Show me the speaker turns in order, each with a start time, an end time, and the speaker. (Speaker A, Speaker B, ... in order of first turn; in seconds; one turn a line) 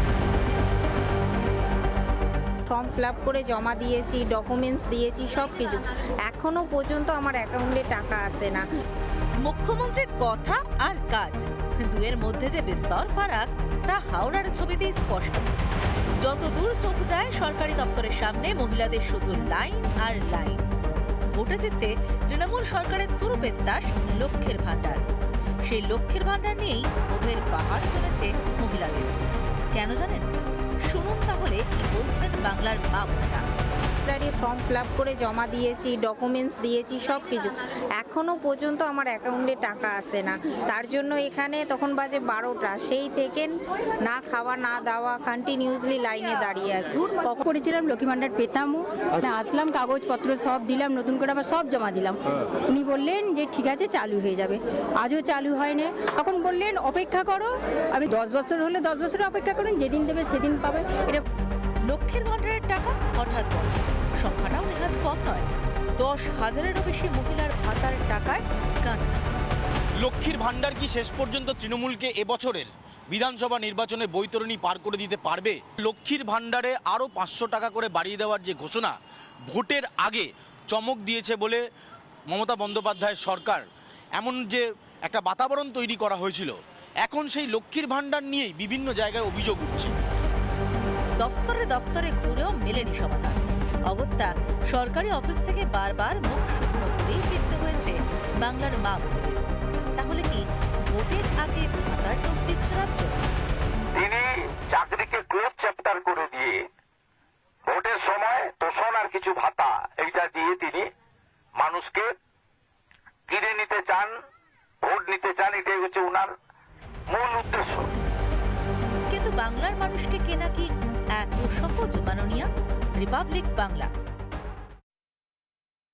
Speaker A: 2.7-8.7
Speaker B: 9.4-15.6
Speaker B: 16.2-20.6
Speaker B: 21.3-25.0
Speaker B: 25.6-30.3
Speaker B: 30.9-33.4
Speaker A: 34.0-47.0
Speaker C: 47.1-61.2
Speaker B: 61.9-69.2
Speaker D: 70.0-78.9
Speaker D: 79.5-81.6
Speaker D: 82.3-83.6
Speaker D: 84.2-86.5
Speaker D: 87.0-89.9
Speaker B: 91.2-103.3
Speaker E: 103.9-106.7
Speaker E: 107.7-110.9
Speaker E: 111.6-112.1
Speaker E: 113.3-114.1
Speaker E: 114.8-116.3
Speaker E: 117.1-117.9
Speaker B: 119.1-123.9